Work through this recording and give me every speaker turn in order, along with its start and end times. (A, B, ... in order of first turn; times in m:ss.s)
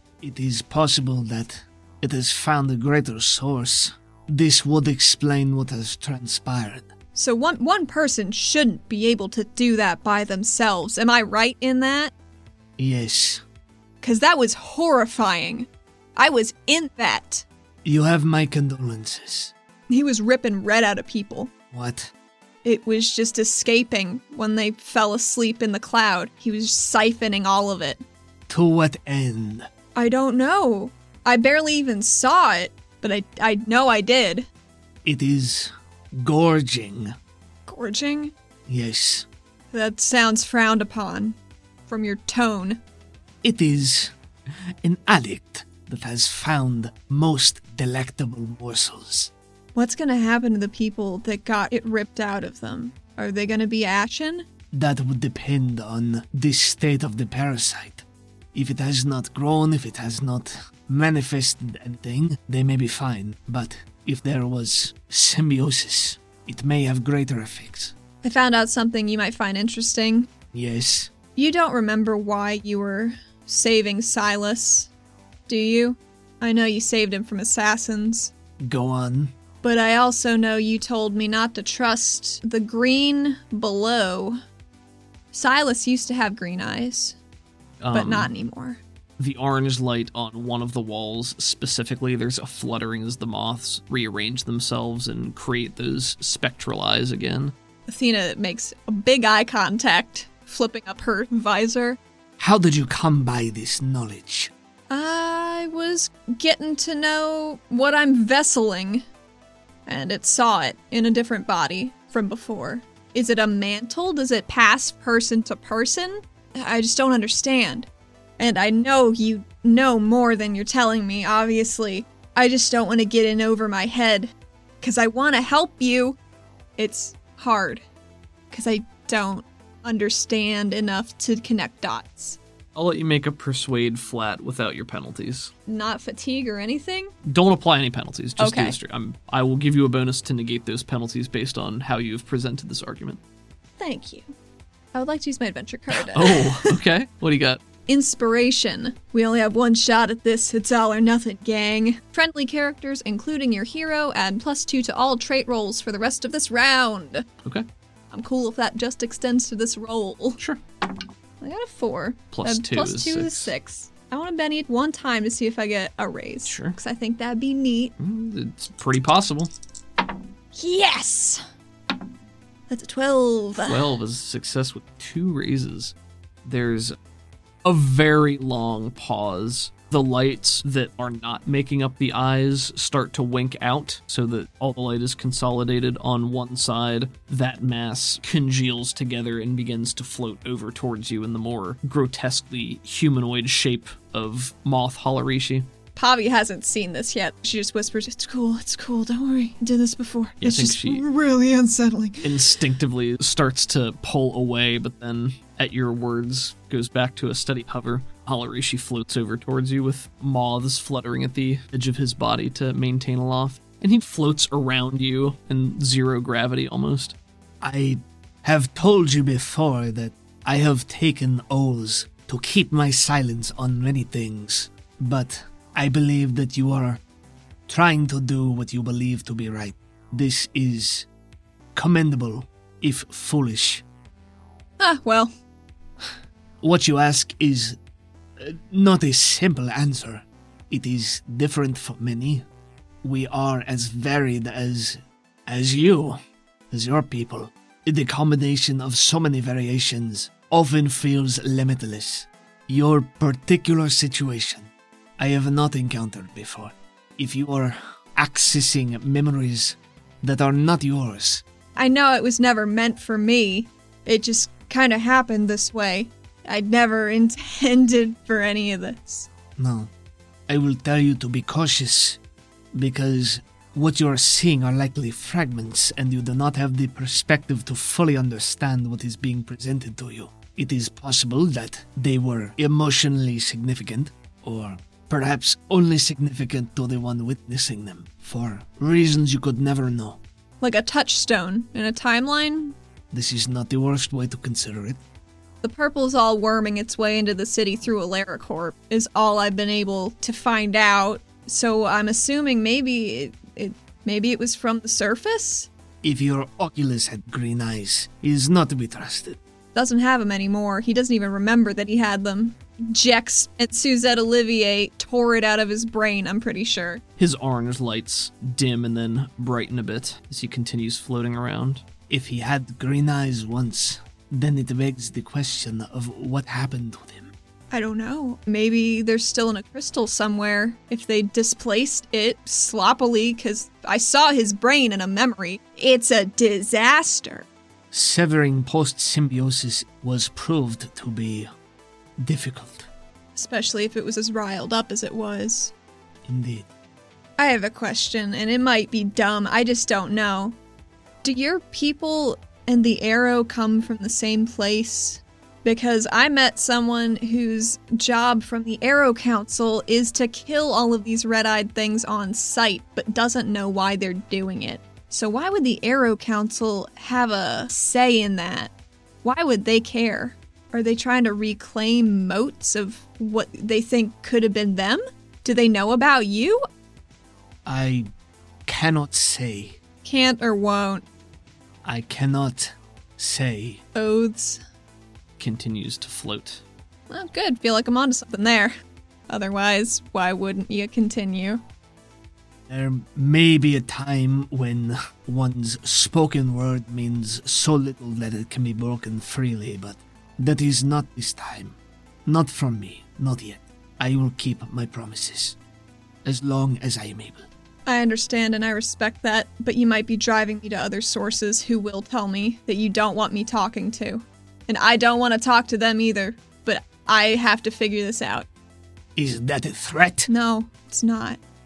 0:00.2-0:06.9 A
0:07.1-0:12.1 B
0:12.8-0:13.4 A
0:14.0-0:17.4 B
0:17.8-0:19.5 A
0:19.9-0:21.5 B
0:21.7-0:22.1 A
0:22.6-0:28.0 B
0:28.5-0:29.7 A
0:29.9-0:34.5 B
0:35.0-0:37.1 A
0:37.7-0:38.3 B
0:38.7-0:39.3 A
0:39.7-0:41.4 B
0:41.9-0:42.8 B
0:43.4-0:44.1 A
0:44.8-0:49.3 A
0:49.7-0:54.4 B
0:54.7-1:07.9 A
1:08.2-1:10.3 B
1:10.5-1:11.1 A
1:11.4-1:14.9 B
1:15.5-1:18.3 B
1:18.6-1:19.3 A
1:19.6-1:24.4 B
1:25.3-1:27.2 B
1:27.8-1:28.3 C
1:27.9-1:28.8 B
1:29.2-1:37.5 C
1:37.9-1:42.0 B
1:42.4-1:44.5 A
1:44.9-1:49.0 B
1:49.8-2:06.2 B
2:06.8-2:07.8 B
2:08.5-2:12.4 B
2:12.7-2:15.5 C
2:15.6-2:17.1 B
2:17.2-2:23.2 C
2:18.4-2:18.8 B
2:23.8-2:24.3 B
2:24.9-2:26.7 B
2:25.9-2:27.6 C
2:27.9-2:37.3 B
2:38.1-2:40.4 B
2:41.4-2:47.9 B
2:42.3-2:43.5 C
2:46.4-2:46.8 C
2:48.0-2:49.5 C
2:50.5-2:51.4 B
2:52.7-2:53.9 B
2:53.6-2:56.9 C
2:57.6-3:15.6 C
3:16.0-3:22.6 B
3:20.4-3:21.0 C
3:22.2-3:37.2 C
3:37.6-3:47.0 A
3:47.7-3:51.1 A
3:51.7-3:53.8 A
3:54.8-3:55.3 B
3:56.6-3:57.8 A
3:58.4-4:02.4 A
4:03.0-4:06.2 A
4:06.7-4:21.4 A
4:21.8-4:29.3 B
4:29.6-4:29.9 A
4:30.5-4:32.2 A
4:32.7-4:50.2 A
4:50.6-4:52.8 B
4:53.1-4:55.0 A
4:55.6-5:05.7 B
5:06.0-5:09.4 A
5:09.7-5:17.0 B
5:17.2-5:21.8 C
5:22.1-5:27.3 A
5:27.7-5:37.5 B
5:37.9-5:41.5 A
5:42.2-5:42.9 A
5:43.4-5:45.7 B
5:46.3-5:46.7 A
5:47.4-5:50.6 B
5:51.2-6:08.7 B
6:09.2-6:16.6 B
6:17.6-6:18.1 A
6:18.6-6:19.8 A
6:20.0-6:21.0 B
6:21.8-6:23.8 A
6:23.9-6:24.6 B
6:25.4-6:26.6 C
6:27.1-6:28.7 B
6:29.3-6:31.6 B
6:32.7-6:45.6 A
6:46.2-6:47.4 A
6:47.8-6:58.5 B
6:59.2-7:00.3 A
7:00.3-7:01.4 B